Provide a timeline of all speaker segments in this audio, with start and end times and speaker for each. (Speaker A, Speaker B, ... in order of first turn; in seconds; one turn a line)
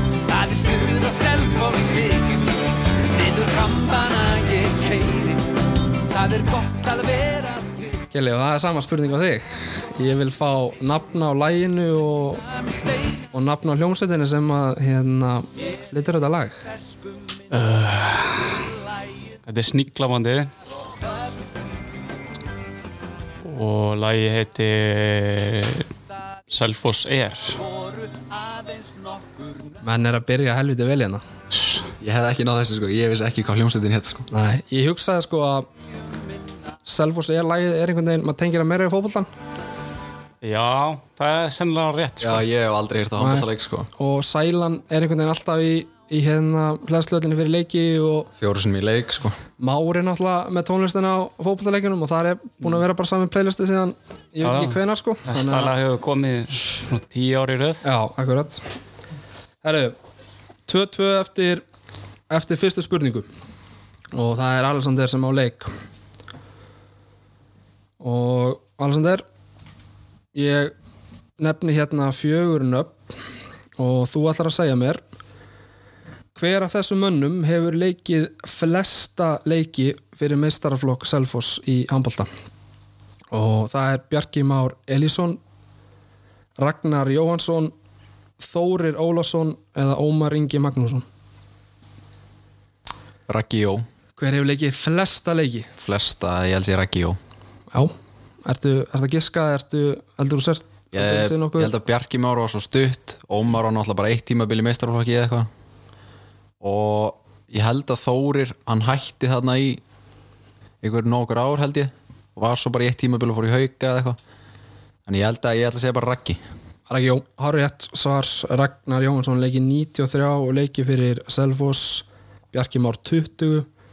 Speaker A: 0.2-7.9
Speaker B: 8.1-12.4
Speaker B: 13.3-16.6
Speaker C: 17.5-18.6
Speaker C: 19.4-20.5
Speaker C: 23.4-25.9
Speaker C: 26.5-27.6
Speaker B: 29.8-31.2
Speaker D: 32.0-34.3
Speaker B: 34.3-35.7
Speaker B: 36.8-39.3
Speaker C: 40.4-42.4
Speaker D: 42.2-43.9
Speaker B: 43.2-48.3
Speaker D: 48.4-49.4
Speaker B: 49.6-55.7
Speaker C: 54.4-57.9
Speaker B: 57.8-58.6
Speaker B: 59.6-59.9
Speaker B: 60.7-61.6
Speaker B: 62.3-63.2
Speaker B: 64.1-65.7
Speaker B: 68.0-69.2
Speaker B: 70.3-70.7
Speaker B: 71.4-73.0
Speaker B: 73.8-75.0
Speaker B: 76.3-82.3
Speaker B: 83.3-85.4
Speaker B: 86.6-87.7
Speaker B: 88.4-91.0
Speaker D: 93.3-93.8
Speaker B: 94.2-95.7
Speaker D: 95.8-97.2
Speaker B: 98.4-101.7
Speaker D: 100.9-105.5
Speaker D: 106.6-109.8
Speaker D: 110.8-114.2
Speaker D: 115.1-116.4
Speaker B: 116.9-123.7